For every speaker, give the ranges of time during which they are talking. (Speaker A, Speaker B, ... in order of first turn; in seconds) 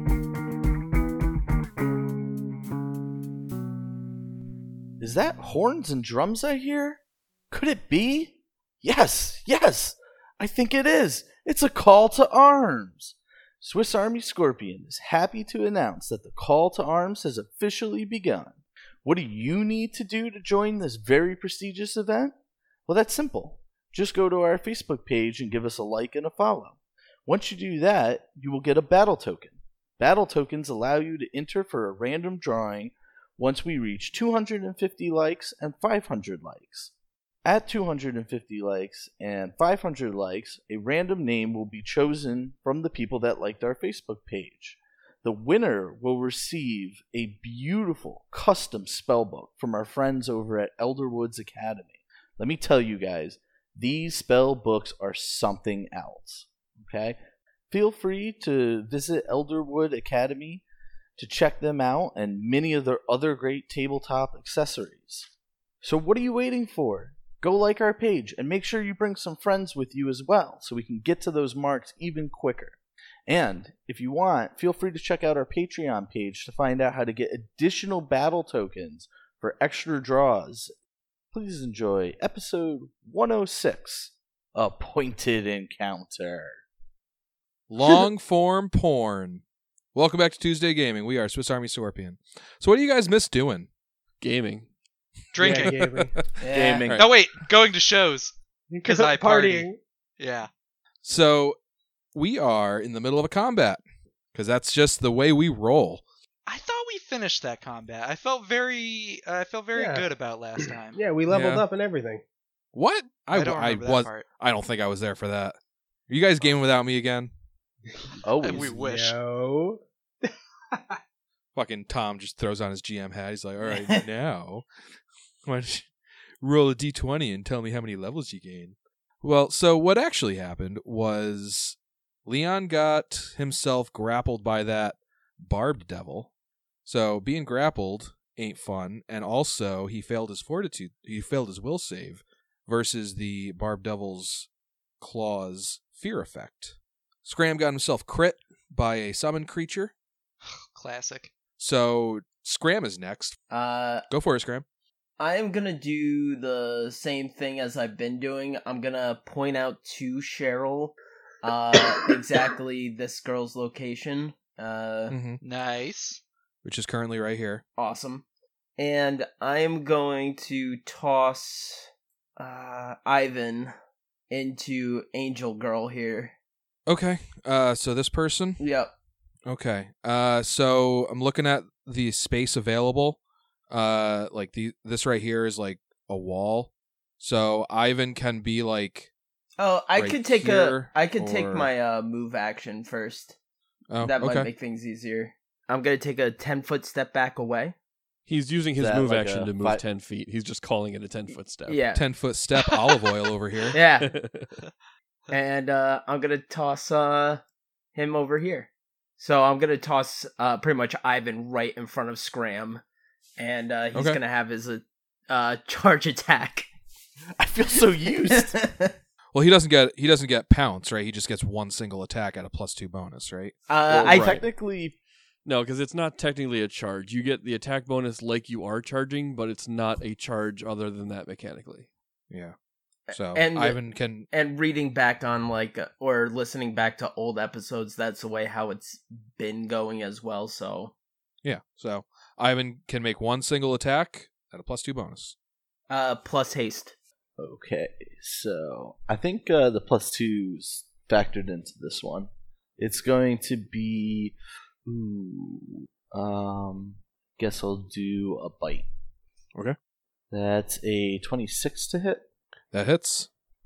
Speaker A: 5.0-7.0, 7.5-22.3, 22.9-36.9, 37.4-57.2, 57.7-60.6, 61.2-65.3, 65.8-80.7, 81.3-86.6, 96.5-97.1, 118.2-118.8, 198.8-199.8, 217.4-218.6, 223.9-224.9, 247.4-258.9, 260.3-262.2
Speaker B: 87.7-89.4, 89.9-93.7, 95.4-96.3, 101.0-101.6, 102.1-103.8, 104.3-106.0, 111.3-111.6, 112.7-115.6, 116.1-117.3, 121.5-124.7, 125.4-136.3, 136.8-144.5, 145.0-149.9, 151.6-153.4, 154.1-154.6, 165.1-165.4, 166.6-167.6, 176.9-178.6, 179.4-183.2, 183.7-189.1, 190.0-191.7, 193.9-194.5, 201.9-203.8, 213.9-214.2, 219.3-224.4, 232.3-232.5, 233.1-234.3, 241.4-245.3, 262.7-263.3
Speaker C: 94.2-94.7, 198.2-201.8, 204.1-204.5, 225.4-231.9
Speaker D: 95.3-95.9, 96.9-98.3, 98.8-99.7, 100.2-100.5, 106.5-111.0, 113.3-114.2, 118.4-119.2, 150.7-151.3, 165.4-166.2
Speaker E: 95.4-96.1, 98.7-99.8, 109.7-110.1, 110.6-112.2, 118.6-121.0
Speaker F: 96.4-96.9, 123.6-124.0, 153.5-154.0, 155.2-165.1, 167.8-168.2, 168.8-173.7, 174.3-176.3, 178.6-178.9, 189.6-193.4, 194.0-197.7, 201.7-202.0, 203.7-204.1, 205.3-207.4, 207.9-212.8, 213.4-216.7, 218.3-218.9, 223.7-224.4, 233.1-240.9, 245.9-246.9